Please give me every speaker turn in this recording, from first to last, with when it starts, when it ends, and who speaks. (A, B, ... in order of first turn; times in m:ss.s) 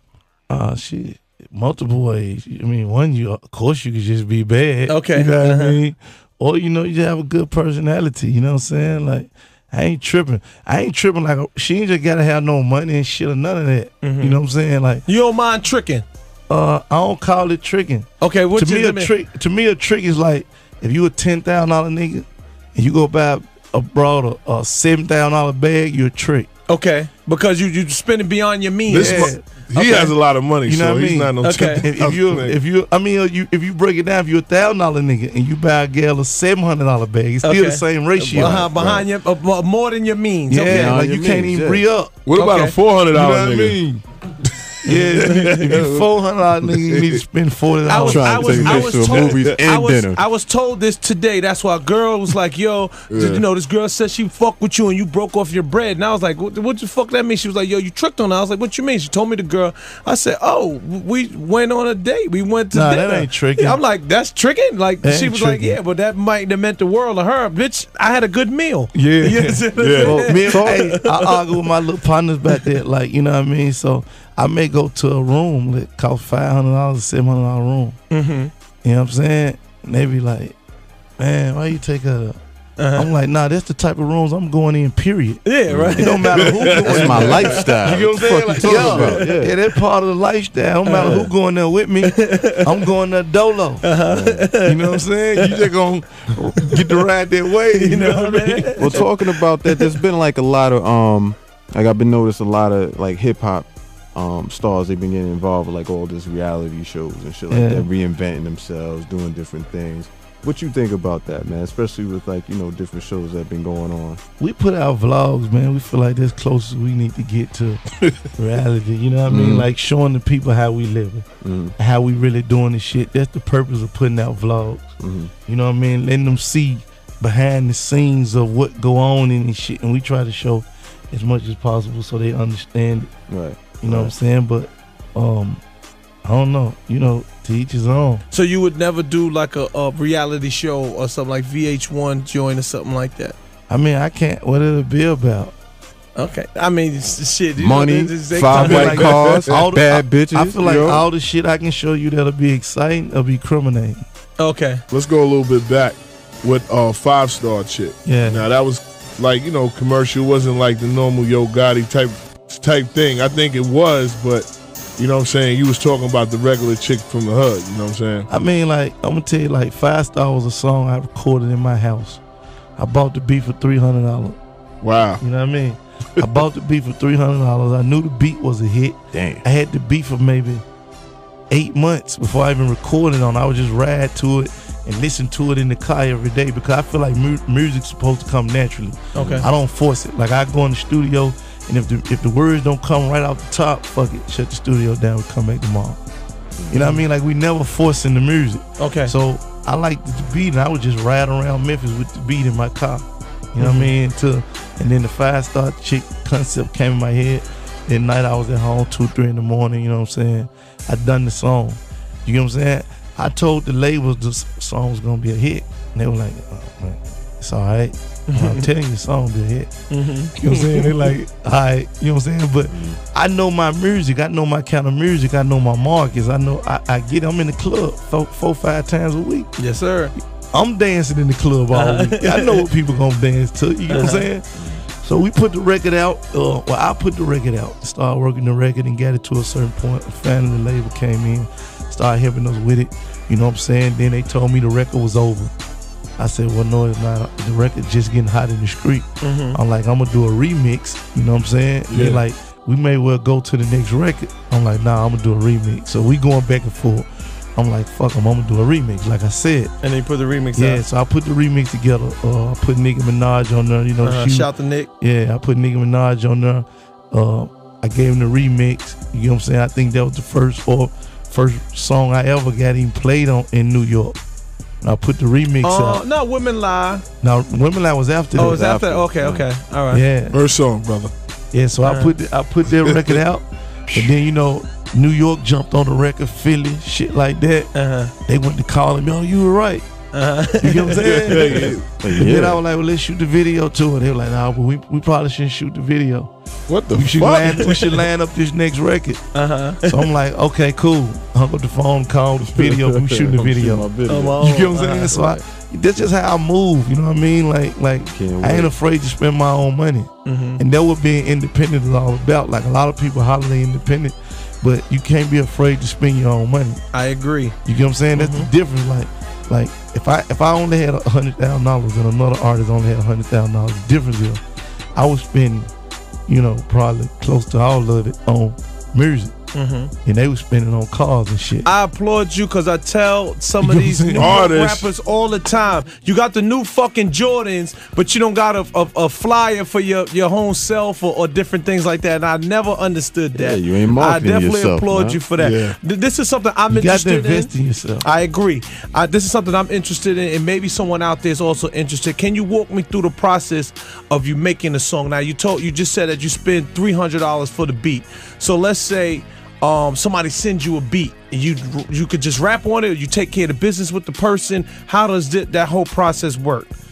0:00.5-0:15.0 A
0:04.9-0:05.8 B
0:14.0-0:14.4 B
0:15.0-0:16.0 B
0:16.5-0:26.5 A
0:18.2-0:19.1 B
0:26.7-0:30.1 B
0:28.9-0:29.6 A
0:28.9-0:32.6 C
0:30.6-0:38.7 A
0:31.4-0:31.9 B
0:37.4-0:41.0 B
0:38.7-0:39.0 C
0:40.5-0:42.2 A
0:40.7-0:41.8 D
0:42.2-0:43.8 C
0:42.3-0:42.7 B
0:43.1-0:44.0 A
0:44.8-0:48.8 A
0:44.9-0:45.6 B
0:45.3-0:46.0 C
0:46.9-0:47.2 C
0:47.8-1:11.6 B
0:47.9-0:50.2 D
0:48.7-0:49.5 C
0:53.1-0:53.4 C
1:02.7-1:03.8 A
1:05.0-1:05.8 A
1:08.9-1:18.0 A
1:09.8-1:10.3 C
1:10.1-1:10.8 D
1:18.1-1:18.5 B
1:18.8-1:20.6 A
1:21.2-1:22.4 A
1:22.8-1:23.1 B
1:22.9-1:33.9 A
1:25.4-1:27.5 B
1:25.7-1:26.0 D
1:26.4-1:27.7 C
1:26.8-1:29.6 D
1:28.6-1:29.2 B
1:30.8-1:31.3 B
1:32.0-1:32.6 B
1:33.8-1:35.6 B
1:34.1-1:34.5 D
1:34.6-1:39.0 A
1:37.7-1:40.0 B
1:38.8-1:54.2 D
1:47.5-1:47.9 A
1:54.4-1:57.8 A
1:58.4-2:01.2 A
1:59.3-1:59.7 D
2:01.4-2:01.7 D
2:01.8-2:13.1 A
2:05.0-2:05.3 D
2:13.3-2:14.1 D
2:13.8-2:15.6 A
2:16.2-2:18.2 A
2:18.3-2:23.4 B
2:23.7-2:25.5 A
2:26.2-2:29.3 B
2:27.6-2:31.0 D
2:28.5-2:34.0 A
2:28.6-2:29.7 C
2:34.4-2:34.8 B
2:34.9-2:48.3 C
2:38.0-2:38.5 A
2:48.3-2:52.2 A
2:52.8-2:54.4 A
2:54.8-2:55.2 C
2:55.2-3:00.6 A
2:59.1-2:59.4 D
3:01.5-3:16.0 A
3:09.1-3:09.4 B
3:09.2-3:09.5 D
3:16.6-3:16.8 D
3:16.7-3:39.7 A
3:16.7-3:17.0 B
3:18.8-3:19.1 B
3:23.6-3:23.9 B
3:38.3-3:38.7 B
3:39.9-3:41.1 B
3:40.4-3:49.5 A
3:42.7-3:43.0 D
3:49.6-3:50.1 B
3:50.5-4:05.5 A
3:51.7-3:52.6 B
3:53.9-3:54.3 B
3:54.6-3:54.8 D
4:06.2-4:19.7 A
4:09.2-4:09.6 B
4:11.9-4:12.2 C
4:19.8-4:20.8 B
4:20.5-4:34.2 A
4:24.0-4:24.9 B
4:34.8-4:36.0 A
4:35.6-4:37.0 B
4:37.2-4:38.6 A
4:38.3-4:39.5 D
4:38.3-4:40.0 B
4:39.9-4:40.4 A
4:40.3-4:41.1 C
4:41.5-4:47.7 A
4:41.8-4:42.2 B
4:42.6-4:43.2 C
4:47.7-4:48.1 B
4:48.2-4:49.8 A
4:50.1-4:51.6 B
4:50.6-4:56.3 A
4:51.0-4:51.8 C
4:52.0-4:52.6 D
4:56.7-4:58.0 C
4:56.9-4:59.3 A
4:57.5-4:58.0 B
4:59.3-5:00.1 B
4:59.8-5:16.8 A
5:02.4-5:04.4 D
5:04.0-5:05.3 B
5:05.1-5:05.4 D
5:08.1-5:08.7 D
5:10.2-5:10.6 B
5:16.9-5:17.6 B
5:17.6-5:24.4 A
5:18.1-5:18.5 B
5:24.9-5:25.7 A
5:26.3-5:29.3 A
5:29.5-5:29.9 B
5:30.0-5:31.7 A
5:31.6-6:06.7 B
5:33.6-5:34.4 A
5:34.2-5:34.9 C
5:43.3-5:45.2 D
5:45.4-5:45.8 C
5:46.7-5:48.0 A